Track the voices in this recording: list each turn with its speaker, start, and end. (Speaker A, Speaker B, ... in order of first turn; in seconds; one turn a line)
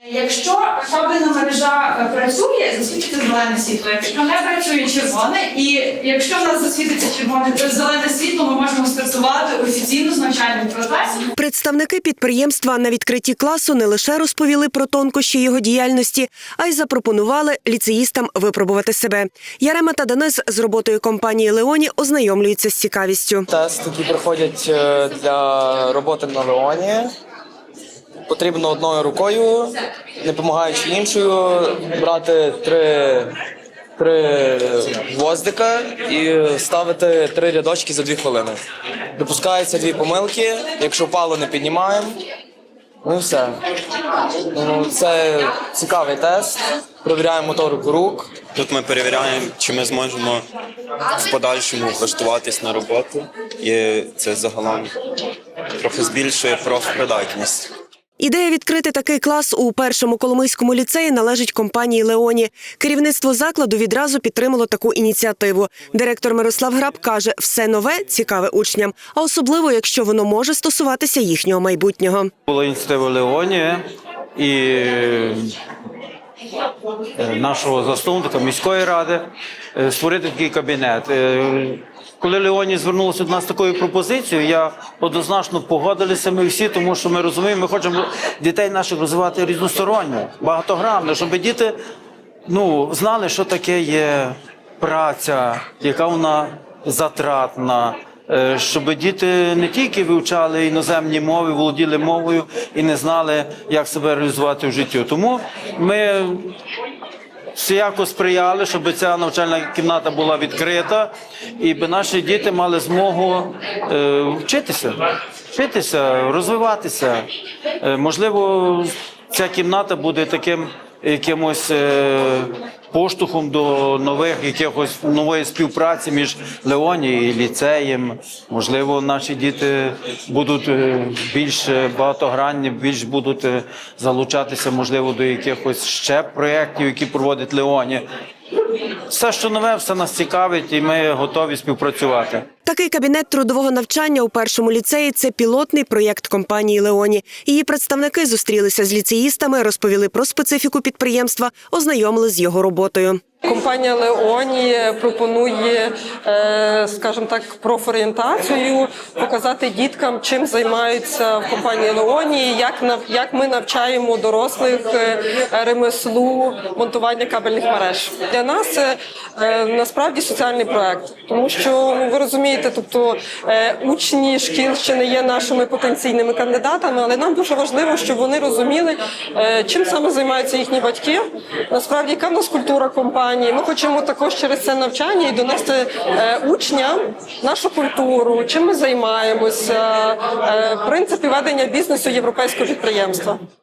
Speaker A: 0.1-11.2
Speaker B: 11.3-23.5
Speaker C: 23.5-27.1
Speaker C: 28.3-33.3
Speaker C: 34.0-38.6
Speaker C: 39.1-42.2
Speaker C: 43.0-43.6
Speaker C: 44.5-48.4
Speaker D: 48.5-50.4
Speaker D: 51.1-54.9
Speaker D: 55.8-57.7
Speaker B: 58.2-72.3
Speaker E: 72.5-73.8
Speaker E: 74.3-75.5
Speaker E: 77.2-91.7
Speaker E: 92.5-106.5
Speaker E: 107.5-115.0
Speaker E: 115.5-117.2
Speaker E: 117.8-138.0
Speaker E: 139.1-142.4
Speaker B: 142.6-153.2
Speaker F: 153.5-193.4